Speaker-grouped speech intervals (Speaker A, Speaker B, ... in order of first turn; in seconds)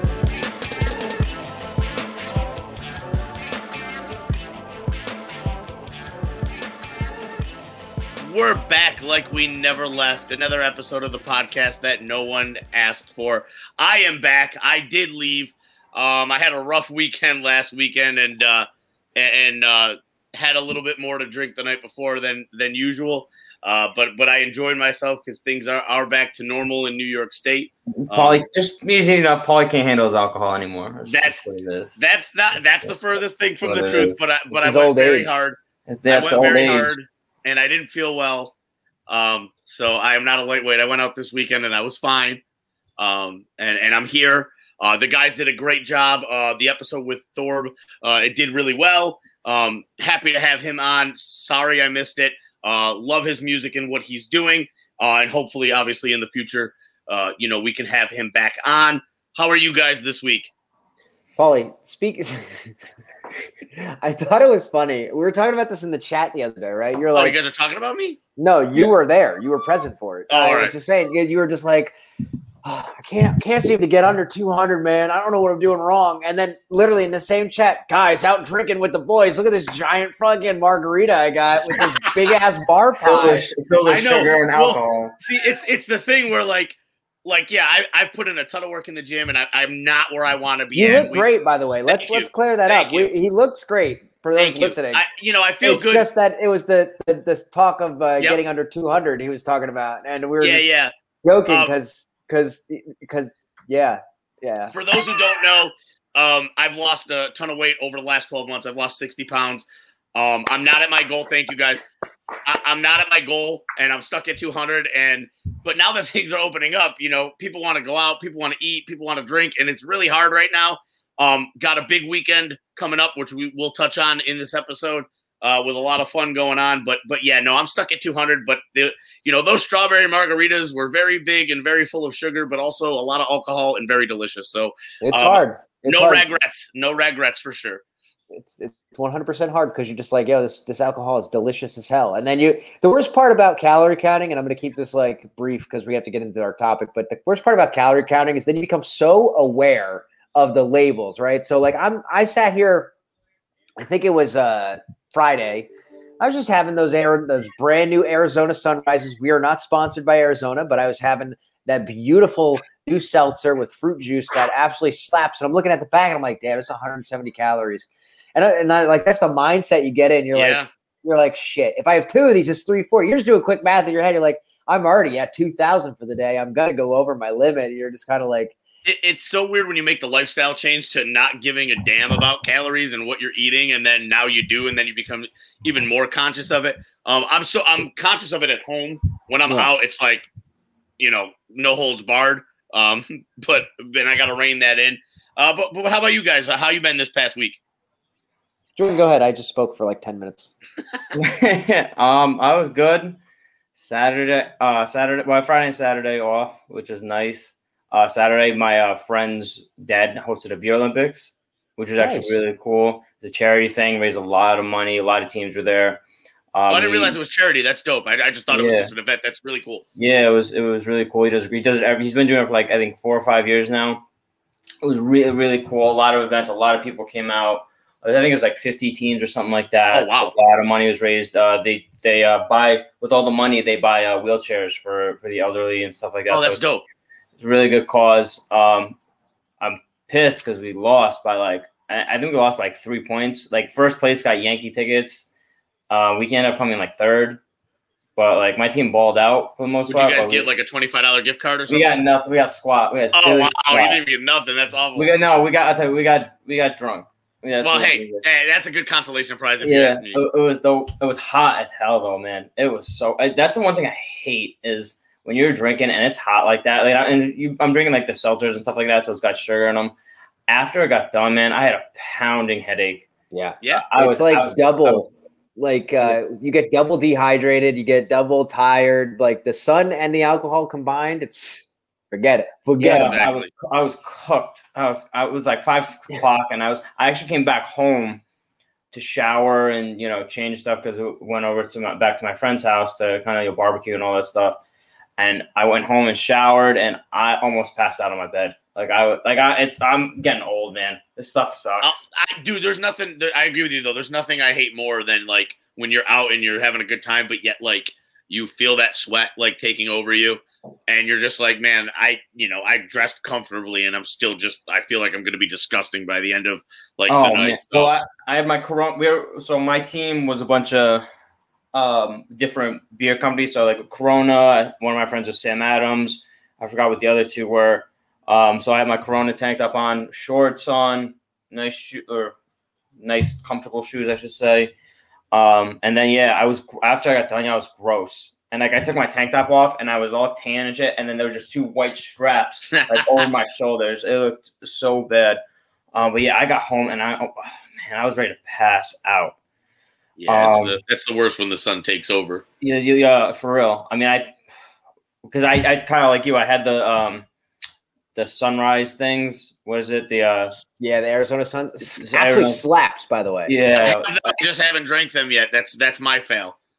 Speaker A: 8.2-28.4, 31.1-31.4, 32.0-38.5, 39.1-42.4, 43.0-60.5, 67.1-68.2, 70.3-70.7, 83.9-91.3, 91.9-93.1, 94.4-96.1, 100.4-100.9, 101.5-101.7, 104.7-111.8, 112.5-137.8, 170.3-170.7, 178.8-190.2, 191.0-197.6, 216.7-219.8, 229.9-230.3, 236.3-236.8, 249.9-251.9, 253.1-255.1, 257.6-260.2, 282.8-283.5, 301.8-317.9, 342.7-343.3, 350.2-352.4, 363.8-366.6
Speaker B: 28.0-32.1, 33.6-34.2, 35.9-37.0, 83.0-85.1, 201.2-203.2, 203.8-216.0, 216.5-217.2, 218.5-218.9, 220.0-224.0, 224.8-236.6, 237.4-239.0, 239.6-245.3, 245.9-247.4, 248.2-250.5, 251.7-254.0, 255.0-258.3, 259.6-269.9, 270.5-273.1, 273.9-275.1, 282.8-288.2, 288.9-294.6, 295.2-302.1, 317.1-321.1, 321.7-332.4, 333.0-334.7, 335.3-345.4, 345.9-349.4, 350.3-350.8, 352.6-354.4, 355.2-357.3, 358.1-360.6, 361.9-362.6, 363.5-364.1
Speaker C: 34.5-35.4, 61.4-62.7, 63.7-67.4, 68.4-72.0, 72.6-83.5, 90.8-95.0, 95.6-100.7, 101.2-104.8, 135.0-136.2, 138.3-152.9, 153.8-155.7, 156.2-178.6, 198.8-200.5, 212.0-212.4, 273.3-283.3, 360.8-363.5